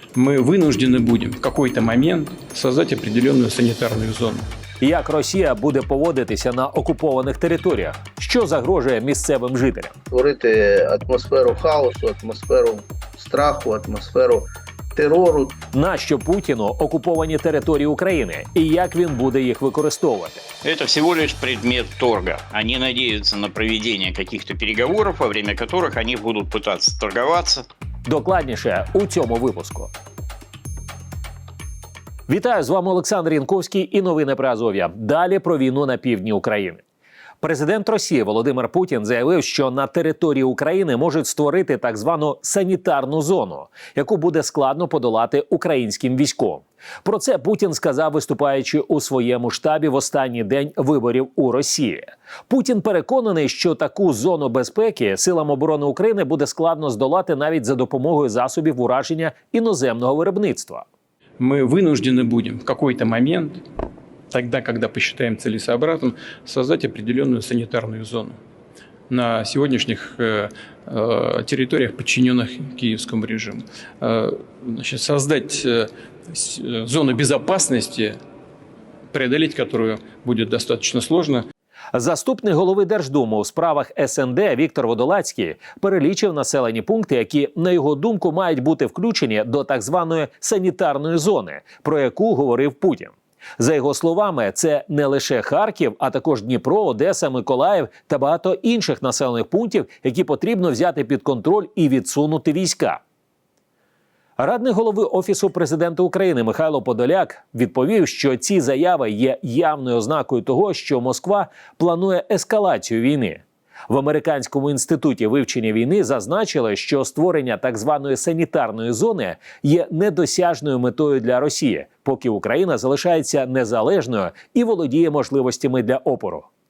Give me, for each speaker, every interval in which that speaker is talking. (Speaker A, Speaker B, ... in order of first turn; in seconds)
Speaker A: 0.1-4.4, 61.4-63.6, 64.3-68.4, 69.1-78.2, 79.1-81.5
Speaker B: 4.8-9.9, 15.7-20.4, 28.1-29.9, 32.3-36.8, 37.4-60.9, 81.9-103.0, 104.4-126.5
Speaker C: 10.1-14.4, 14.9-15.5
Speaker D: 20.6-27.6